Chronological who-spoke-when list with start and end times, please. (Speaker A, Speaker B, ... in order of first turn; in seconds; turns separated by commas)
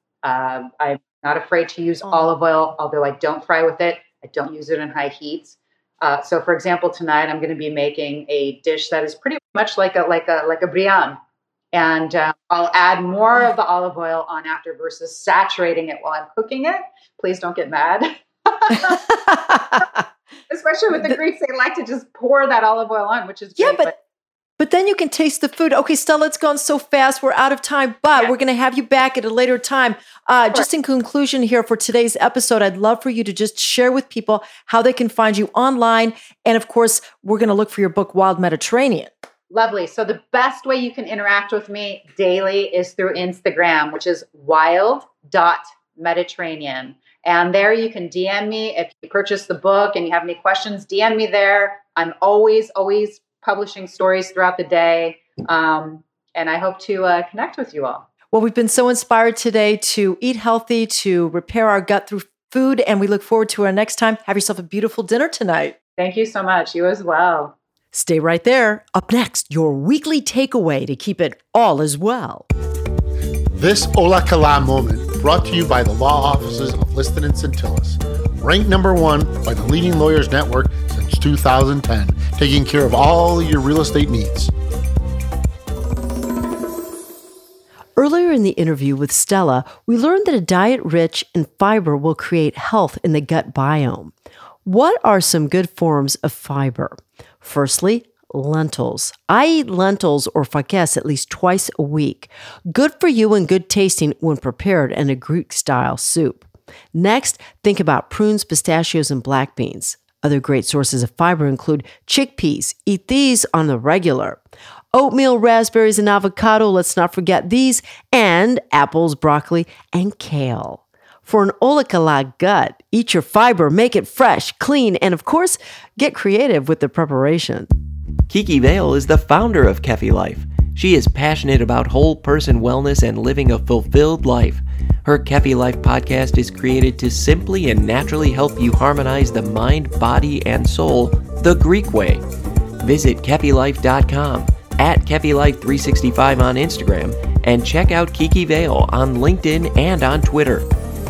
Speaker A: 0.2-11.2, Speaker A: 11.7-19.1, Speaker B: 19.3-19.8, Speaker A: 20.5-23.9, Speaker B: 23.6-23.9, Speaker B: 24.6-39.1, Speaker A: 39.5-58.1, Speaker B: 58.3-65.7, Speaker A: 66.0-67.5, Speaker B: 67.9-72.4, Speaker C: 68.9-72.1, Speaker D: 73.5-84.5, Speaker C: 88.0-94.1, Speaker C: 94.6-127.7, Speaker E: 128.3-142.2, Speaker E: 142.8-150.7